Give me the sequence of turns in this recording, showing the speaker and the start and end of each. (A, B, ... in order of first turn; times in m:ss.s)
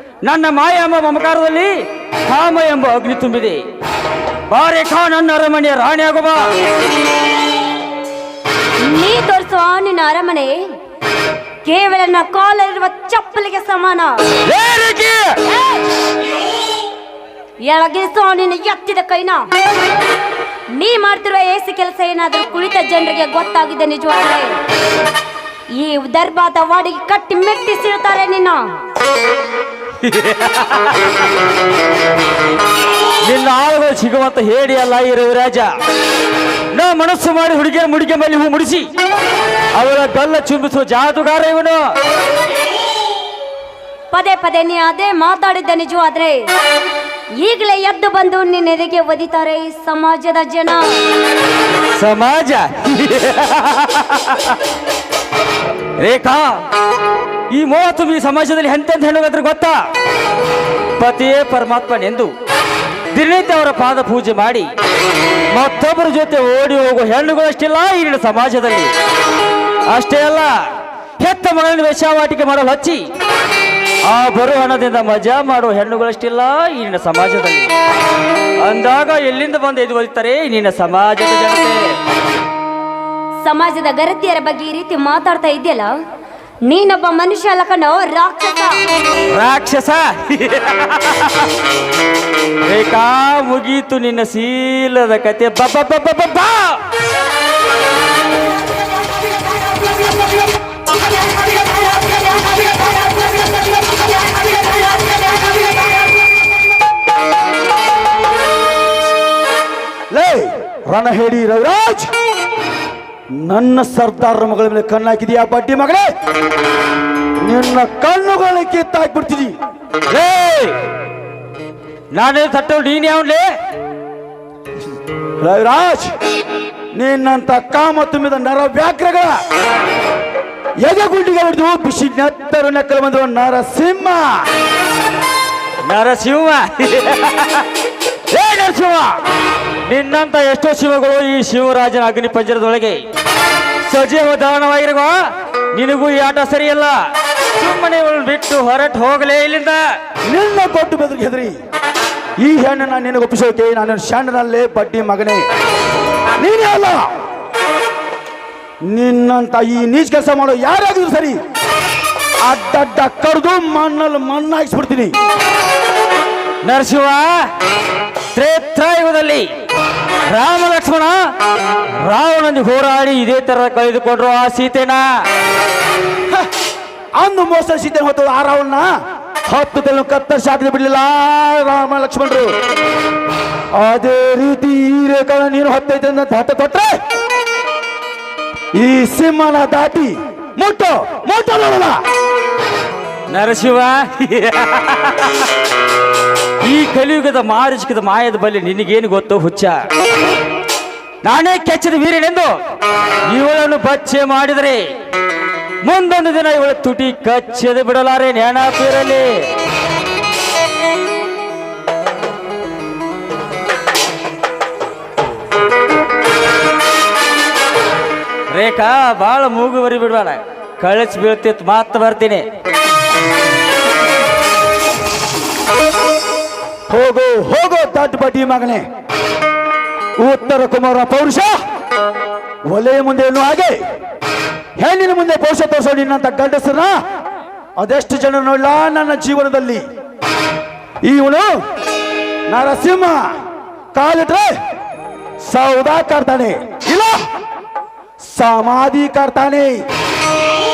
0:00.2-0:03.6 A
0:04.5-0:06.6 A
0:08.8-0:10.6 B
0:11.6-0:14.3 B
0:14.5-0:15.4 A
0:15.5-0:15.9 B
0:17.6-0:19.5 B
0:20.7-0:24.6 B
0:25.8-0:28.6 B
0:30.0-0:31.0 A
0:33.2-0:35.7 A
0:36.7-0:38.9 A
0:39.8-0:41.8 A
0:44.1-0:46.5 B
0:47.4-0:51.0 B
0:51.9-0:54.6 A
0:56.0-0:56.6 A
0:57.5-0:59.8 A
1:01.0-1:02.3 A
1:03.1-1:04.7 A
1:05.5-1:09.0 A
1:09.9-1:10.6 A
1:11.2-1:13.1 A
1:14.1-1:17.7 A
1:18.6-1:21.8 A
1:23.4-1:25.9 B
1:26.6-1:28.8 B
1:29.3-1:31.5 A
1:32.7-1:36.8 A
1:50.1-1:52.1 C
1:53.4-1:56.1 C
1:57.4-1:59.6 C
2:00.1-2:00.8 A
2:02.1-2:03.5 A
2:05.4-2:06.1 C
2:07.0-2:09.4 C
2:10.8-2:14.4 C
2:15.9-2:17.7 A
2:18.3-2:19.2 A
2:19.9-2:23.0 A
2:23.9-2:25.2 A
2:25.8-2:27.0 A
2:27.6-2:29.8 A
2:30.3-2:31.6 C
2:32.4-2:35.4 C
2:36.4-2:37.1 C
2:38.8-2:41.4 C
2:42.4-2:45.2 C
2:46.6-2:47.5 A
2:48.3-2:49.5 A
2:50.3-2:51.2 A
2:52.0-2:55.1 A
2:57.2-2:58.9 C
2:59.5-3:02.5 C
3:03.7-3:07.0 C
3:08.8-3:12.0 C
3:13.3-3:15.5 A
3:16.6-3:19.8 A
3:21.2-3:22.6 A
3:23.3-3:24.9 A
3:25.8-3:29.5 A
3:38.5-3:42.5 A
3:46.9-3:48.8 C
3:50.2-3:51.6 C
3:52.7-3:53.8 C
3:54.8-3:57.0 C
3:57.8-3:59.8 C
4:01.0-4:01.6 C
4:02.5-4:03.2 C
4:03.9-4:04.5 C
4:05.5-4:07.2 C
4:08.3-4:09.8 C